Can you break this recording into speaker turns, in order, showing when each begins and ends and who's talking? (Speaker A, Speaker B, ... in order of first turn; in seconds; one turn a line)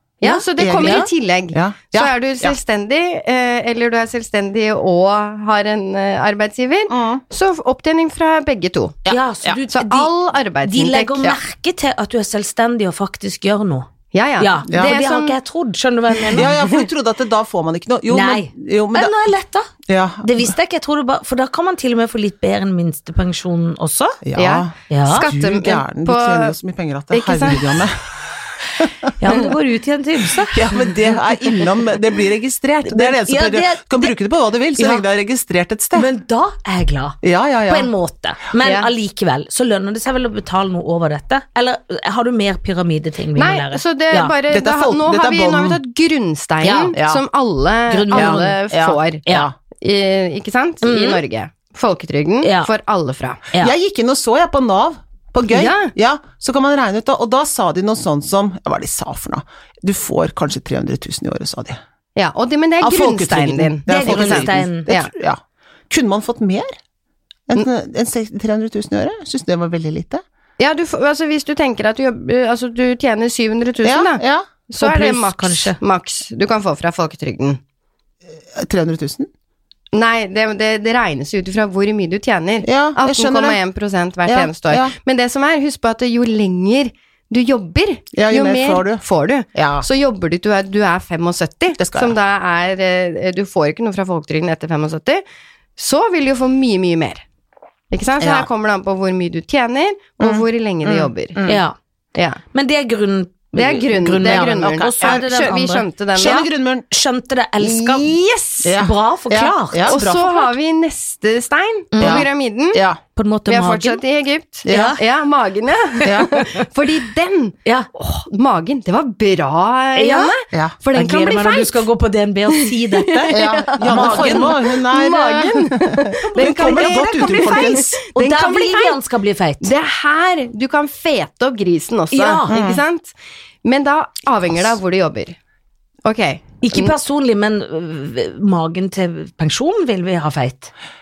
Speaker A: 0.2-9.0
Speaker B: 0.2-1.1
Speaker C: 0.6-2.5
Speaker C: 6.9-7.2
Speaker C: 9.1-9.6
Speaker B: 9.1-10.1
Speaker A: 9.7-11.4
Speaker B: 10.6-13.9
Speaker A: 14.1-15.3
Speaker B: 14.4-16.5
Speaker A: 16.3-16.6
Speaker C: 16.3-19.2
Speaker B: 18.1-19.7
Speaker C: 19.9-20.5
Speaker B: 20.2-24.2
Speaker C: 24.2-28.0
Speaker A: 24.4-26.5
Speaker B: 24.9-25.3
Speaker A: 27.1-27.9
Speaker C: 28.8-29.1
Speaker B: 29.2-30.9
Speaker C: 30.5-36.1
Speaker B: 32.9-34.1
Speaker B: 34.8-35.0
Speaker B: 35.9-44.3
Speaker C: 37.2-37.9
Speaker A: 38.6-38.9
Speaker A: 43.4-49.2
Speaker C: 44.5-45.8
Speaker B: 46.6-46.9
Speaker C: 46.9-47.2
Speaker B: 47.9-48.6
Speaker C: 48.1-49.5
Speaker A: 49.8-53.4
Speaker B: 50.8-51.2
Speaker B: 52.4-52.7
Speaker C: 53.6-61.8
Speaker A: 55.5-55.9
Speaker A: 62.1-65.1
Speaker C: 62.8-66.8
Speaker B: 63.9-64.9
Speaker C: 67.5-70.2
Speaker A: 70.6-77.6
Speaker C: 73.8-74.5
Speaker B: 74.8-75.8
Speaker C: 78.3-79.3
Speaker A: 79.9-95.2
Speaker C: 82.6-83.6
Speaker C: 84.2-84.9
Speaker C: 88.1-89.0
Speaker C: 89.5-89.9
Speaker C: 91.8-92.2
Speaker A: 95.8-97.2
Speaker A: 97.9-101.4
Speaker C: 98.2-98.5
Speaker C: 100.2-101.6
Speaker B: 101.5-101.7
Speaker A: 102.1-102.4
Speaker B: 102.5-105.8
Speaker A: 103.5-106.5
Speaker C: 104.3-105.2
Speaker C: 106.2-106.8
Speaker B: 106.9-108.1
Speaker A: 107.6-108.8
Speaker C: 108.6-110.5
Speaker B: 108.8-110.0
Speaker A: 109.9-112.8
Speaker B: 111.9-112.3
Speaker C: 112.0-113.0
Speaker B: 113.2-114.0
Speaker A: 113.5-121.8
Speaker C: 114.7-115.0
Speaker B: 114.7-115.0
Speaker C: 116.0-116.4
Speaker B: 120.0-120.4
Speaker B: 120.9-124.5
Speaker A: 122.5-129.0
Speaker C: 123.3-128.0
Speaker B: 126.6-129.7
Speaker A: 129.6-135.4
Speaker B: 132.1-132.6
Speaker C: 132.5-132.8
Speaker A: 136.0-136.9
Speaker B: 136.6-140.7